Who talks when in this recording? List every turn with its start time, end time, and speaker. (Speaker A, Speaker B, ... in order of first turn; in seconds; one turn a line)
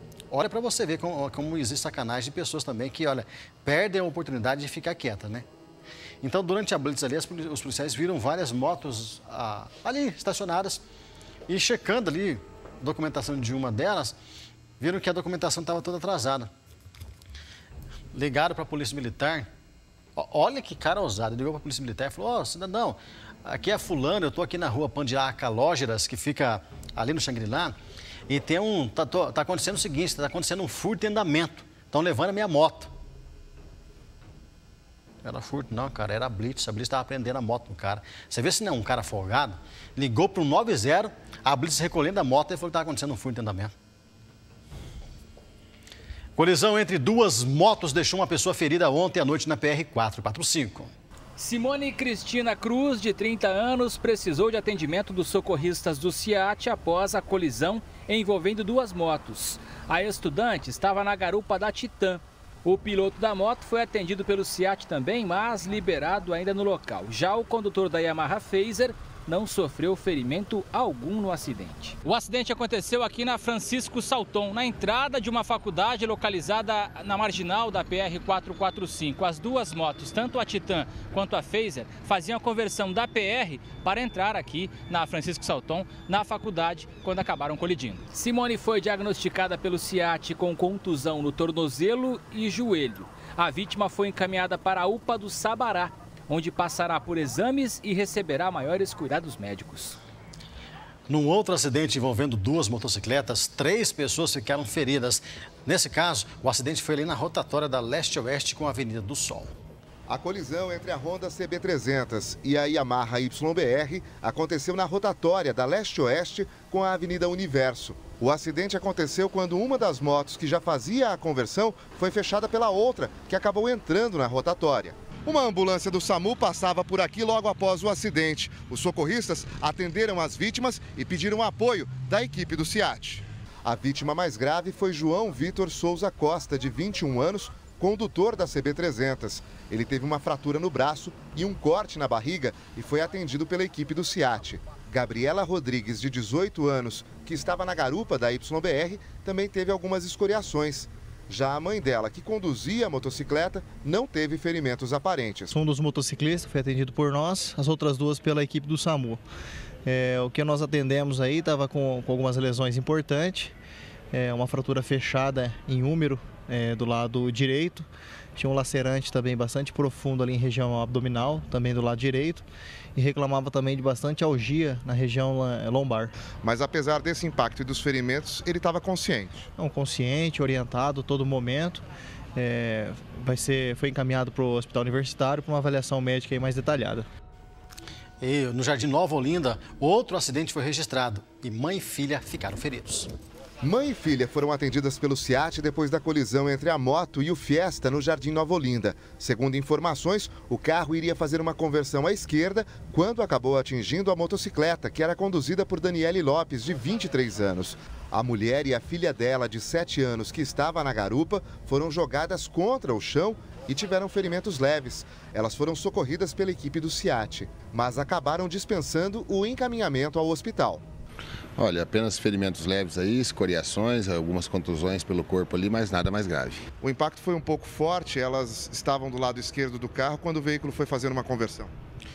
Speaker A: 0.3-5.5
Speaker A: 6.2-10.8
Speaker A: 11.5-14.2
Speaker A: 14.8-16.5
Speaker A: 18.1-19.5
Speaker A: 20.1-27.8
Speaker A: 28.3-32.9
Speaker A: 35.2-43.7
Speaker A: 46.4-50.9
Speaker B: 51.4-100.0
Speaker A: 101.1-109.5
Speaker C: 110.1-155.5
Speaker D: 155.5-159.2
Speaker D: 159.8-163.5
Speaker D: 164.1-176.1
Speaker C: 176.4-179.5
Speaker D: 179.6-181.8
Speaker D: 182.3-187.1
Speaker A: 188.2-193.1
Speaker C: 193.6-220.8
Speaker E: 221.6-226.6
Speaker C: 226.8-231.7